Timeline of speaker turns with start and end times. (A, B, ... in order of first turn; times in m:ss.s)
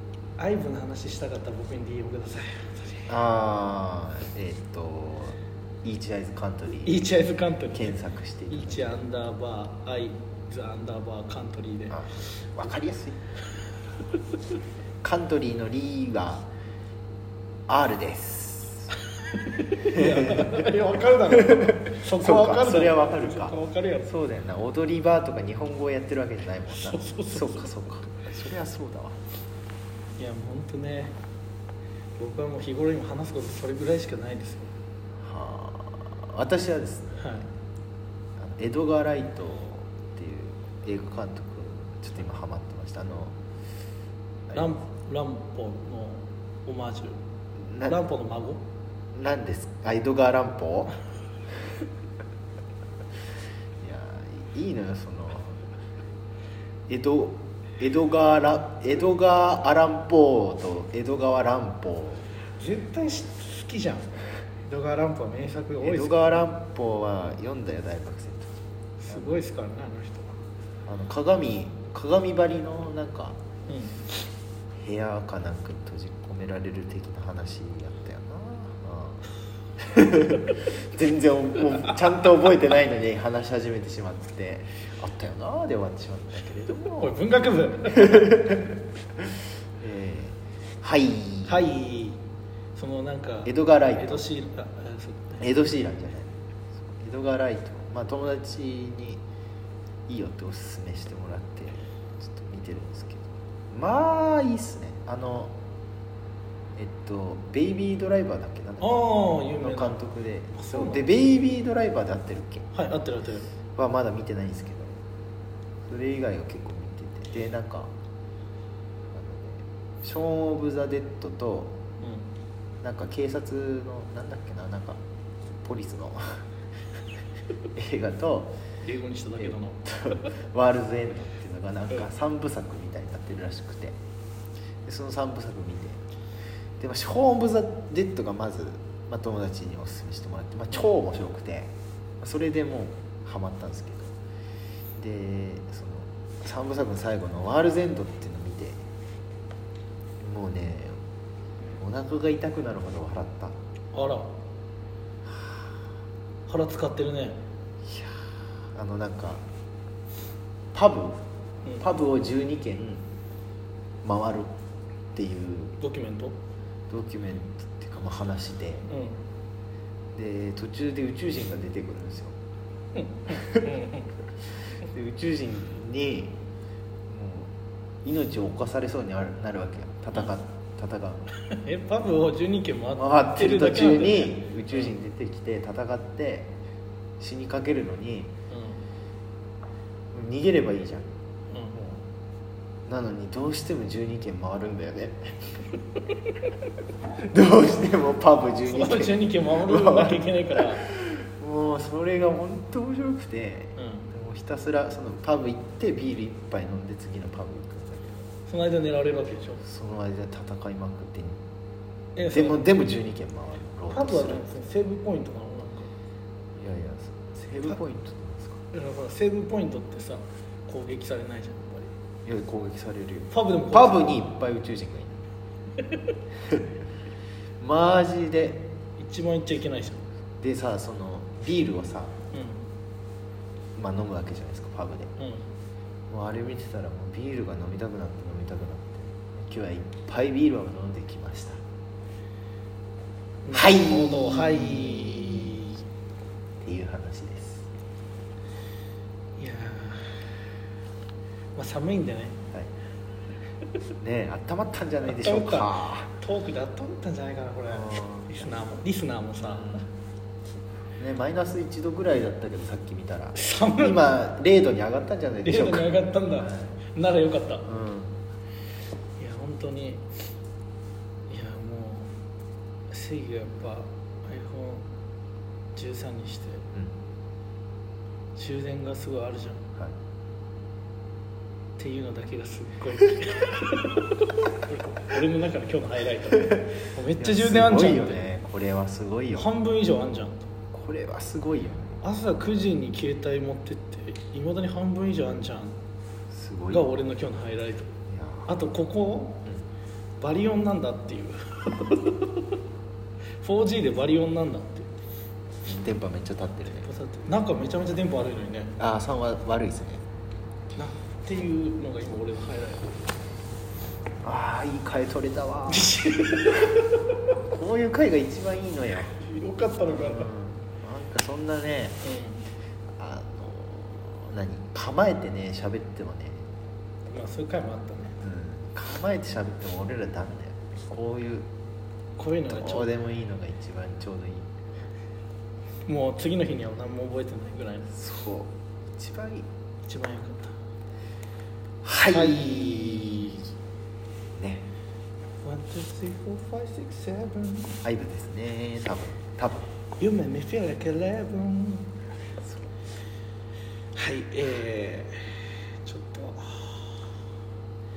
0:00.4-0:03.1 A
0:03.1-0:07.1 B
0:06.8-0:08.0 A
0:07.7-0:09.0 B
0:08.5-0:12.0 A
0:11.9-0:13.2 B
0:15.0-0:16.5 B
0:17.7-0:19.0 B
0:19.4-0:24.1 A
0:19.9-0:20.7 B
0:21.4-0:29.2 B
0:26.7-0:27.7 A
0:30.2-0:31.2 A
0:32.2-0:34.7 A
0:35.2-0:37.4 B
0:37.2-0:37.4 A
0:38.4-0:43.3 B
0:44.5-0:44.8 B
0:44.5-0:47.2 A
0:47.7-0:48.0 B
0:47.8-0:48.6 A
0:49.2-0:51.0 B
0:53.8-0:55.6 B
0:56.9-1:02.3 B
1:02.6-1:04.1 A
1:04.7-1:06.2 A
1:05.8-1:08.6 B
1:09.0-1:10.3 A
1:09.1-1:09.4 B
1:10.9-1:13.4 B
1:13.7-1:14.1 A
1:14.8-1:27.2 B
1:26.9-1:28.5 A
1:28.0-1:28.6 B
1:29.8-1:31.7 B
1:31.5-1:32.2 A
1:32.8-1:35.4 A
1:33.4-1:34.2 B
1:35.4-1:39.2 B
1:40.1-1:45.6 B
1:46.8-1:52.7 B
1:48.8-1:50.0 A
1:50.6-1:51.1 A
1:52.7-1:53.5 A
1:53.7-1:55.0 B
1:55.9-1:57.9 B
1:59.1-2:01.8 B
2:02.0-2:02.3 A
2:02.8-2:05.0 B
2:05.6-2:06.4 B
2:07.7-2:08.6 B
2:08.8-2:10.3 A
2:09.4-2:14.0 B
2:14.9-2:16.0 B
2:16.8-2:24.2 B
2:25.0-2:28.8 B
2:30.2-2:31.0 B
2:31.8-2:33.6 B
2:33.9-2:34.4 A
2:35.2-2:35.6 B
2:36.5-2:37.4 A
2:37.8-2:39.5 B
2:40.7-2:41.2 B
2:41.8-2:43.0 B
2:44.0-2:44.5 B
2:45.2-2:45.8 B
2:45.8-2:46.4 A
2:46.9-2:48.9 B
2:48.9-2:49.2 A
2:50.1-2:52.4 B
2:52.9-2:54.2 A
2:53.4-2:53.7 B
2:54.7-2:56.4 B
2:57.1-2:57.5 B
2:58.0-3:01.3 B
3:01.5-3:04.9 A
3:02.9-3:06.5 B
3:07.2-3:08.3 B
3:08.5-3:08.8 A
3:10.1-3:11.1 B
3:11.5-3:11.8 A
3:11.7-3:12.0 B
3:12.9-3:15.5 B
3:17.3-3:28.2 B
3:18.7-3:20.8 A
3:23.8-3:24.1 A
3:28.5-3:29.6 A
3:29.6-3:31.4 B
3:32.2-3:32.6 A
3:32.2-3:34.6 B
3:33.9-3:35.9 A
3:36.6-3:38.6 B
3:38.7-3:41.9 A
3:42.2-3:45.2 B
3:43.3-3:44.2 A
3:47.6-3:48.6 B
3:49.0-3:50.0 A
3:50.4-3:52.2 B
3:52.3-3:52.6 A
3:53.8-3:55.1 B
3:55.2-3:55.4 A
3:56.1-4:01.6 B
4:03.4-4:05.8 A
4:03.5-4:05.6 B
4:06.6-4:07.7 B
4:09.4-4:10.2 A
4:11.6-4:12.4 A
4:14.0-4:16.1 B
4:15.1-4:19.8 A
4:17.7-4:18.6 B
4:19.5-4:19.9 B
4:21.0-4:26.8 B
4:23.4-4:24.0 A
4:25.4-4:27.7 A
4:27.6-4:28.2 B
4:29.2-4:30.1 A
4:31.3-4:32.1 A
4:32.9-4:34.8 A
4:35.7-4:36.7 A
4:38.4-4:39.6 A
4:41.8-4:48.2 A
4:47.2-4:49.5 B
4:49.4-4:50.5 A
4:50.7-4:52.0 B
4:52.0-4:55.8 A
4:56.3-4:56.9 B
4:56.7-4:57.9 A
4:58.0-4:58.6 B
4:58.5-4:59.4 A
5:00.2-5:02.6 A
5:03.4-5:04.9 A
5:05.7-5:06.9 B
5:06.8-5:08.8 A
5:08.8-5:10.0 B
5:10.8-5:13.0 A
5:14.2-5:16.0 B
5:15.7-5:17.1 A
5:17.4-5:19.2 B
5:19.2-5:20.3 A
5:19.8-5:22.0 B
5:22.0-5:22.4 A
5:23.0-5:26.4 B
5:27.1-5:28.2 A
5:28.2-5:31.5 B
5:32.2-5:32.9 A
5:32.5-5:34.5 B
5:35.9-5:37.9 A
5:37.9-5:39.4 B
5:39.8-5:40.6 A
5:41.8-5:43.5 B
5:42.1-5:43.4 A
5:44.4-5:44.7 B
5:45.4-5:47.8 A
5:47.8-5:49.7 B
5:50.0-5:51.9 A
5:54.0-5:57.1 A